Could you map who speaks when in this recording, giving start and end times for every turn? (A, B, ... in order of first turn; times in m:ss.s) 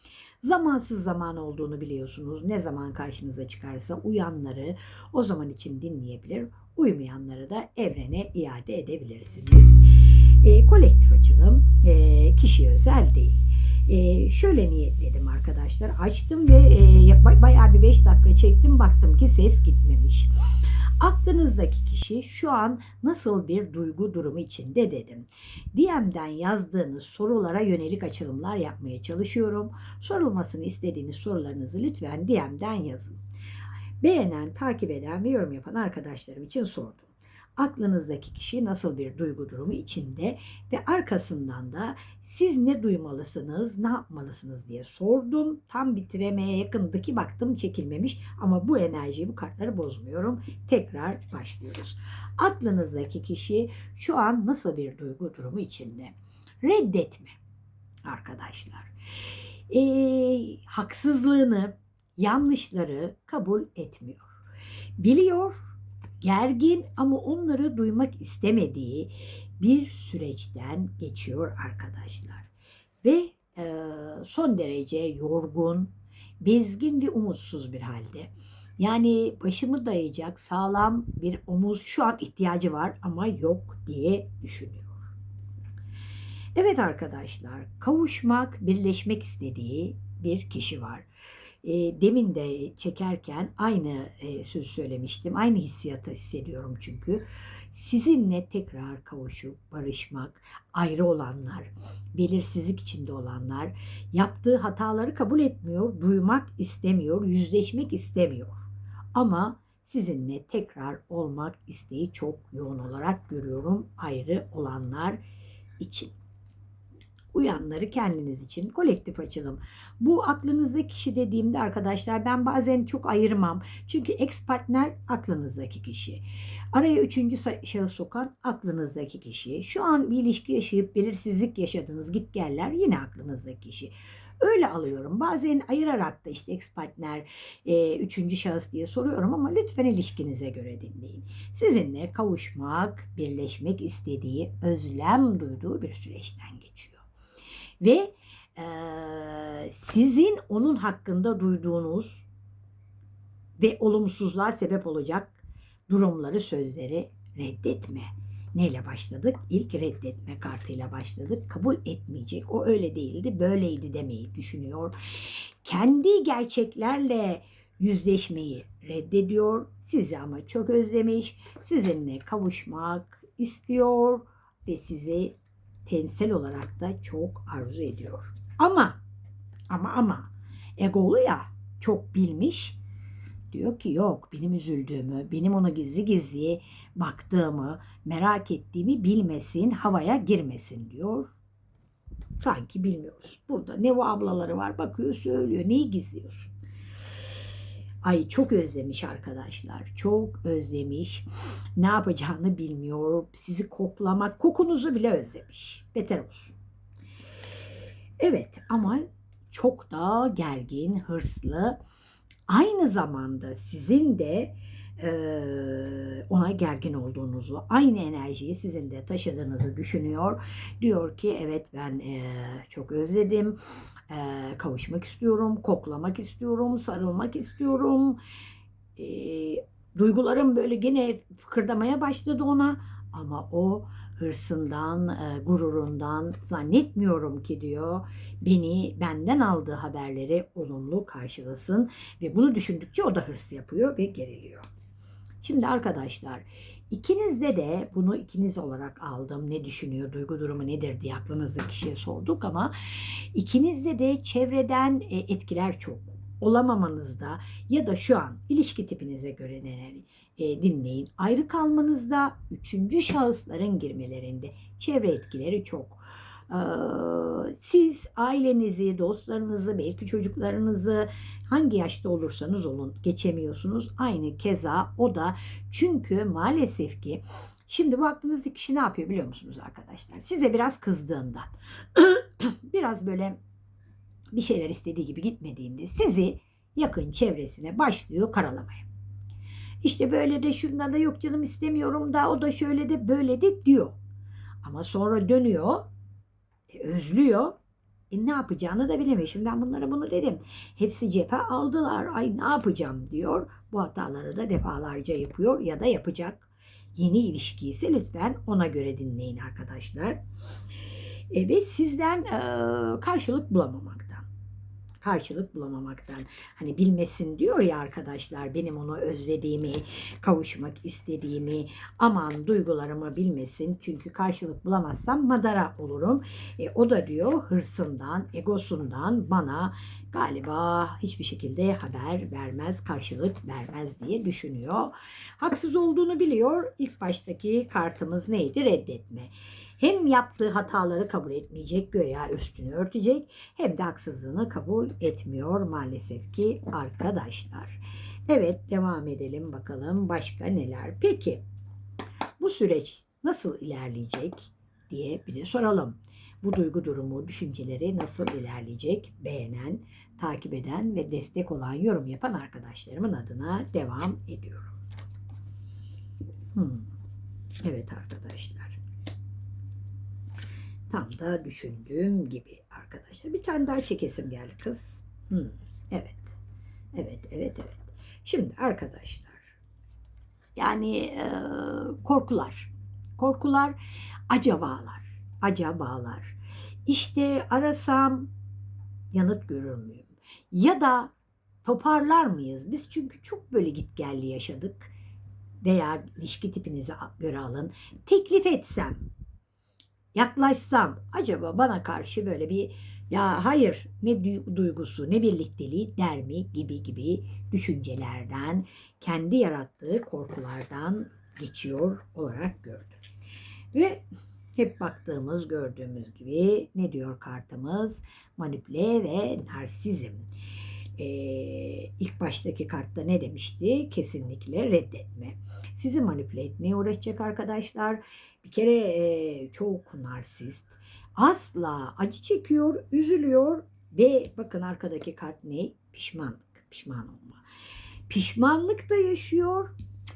0:00.4-0:20.3 A
0:21.0-0:33.2 A
0:34.0-0:57.4 A
0:58.0-0:58.9 A
0:59.7-1:04.4 A
1:05.0-1:05.6 A
1:06.2-1:12.5 A
1:13.0-1:25.1 A
1:26.6-1:31.0 A
1:31.6-1:48.6 A
1:49.1-1:55.2 A
1:55.8-1:56.1 A
1:57.3-2:27.0 A
2:27.8-2:32.2 A
2:33.6-2:55.3 A
2:55.8-2:59.0 A
2:59.7-3:02.8 A
3:03.5-3:11.3 A
3:12.4-3:16.5 A
3:18.0-3:26.6 A
3:28.2-3:31.8 A
3:32.5-3:43.6 A
3:44.1-3:48.2 A
3:49.0-4:04.6 A
4:05.4-4:43.4 A
4:44.3-4:48.8 A
4:49.8-4:54.0 A
4:54.6-4:55.9 A
4:56.7-4:57.6 A
4:58.1-5:10.2 A
5:11.3-5:14.3 A
5:15.0-5:51.4 A
5:52.4-6:04.7 A
6:06.5-6:06.9 A
6:07.6-6:08.8 A
6:10.9-6:16.4 A
6:16.9-6:19.5 A
6:20.6-6:23.8 A
6:24.3-6:26.3 A
6:26.9-6:28.3 A
6:29.1-6:31.1 A
6:31.6-6:34.9 A
6:35.6-6:39.0 A
6:40.1-6:53.0 A
6:53.7-6:54.0 A
6:54.6-7:00.2 A
7:01.0-7:17.4 A
7:18.1-7:19.7 A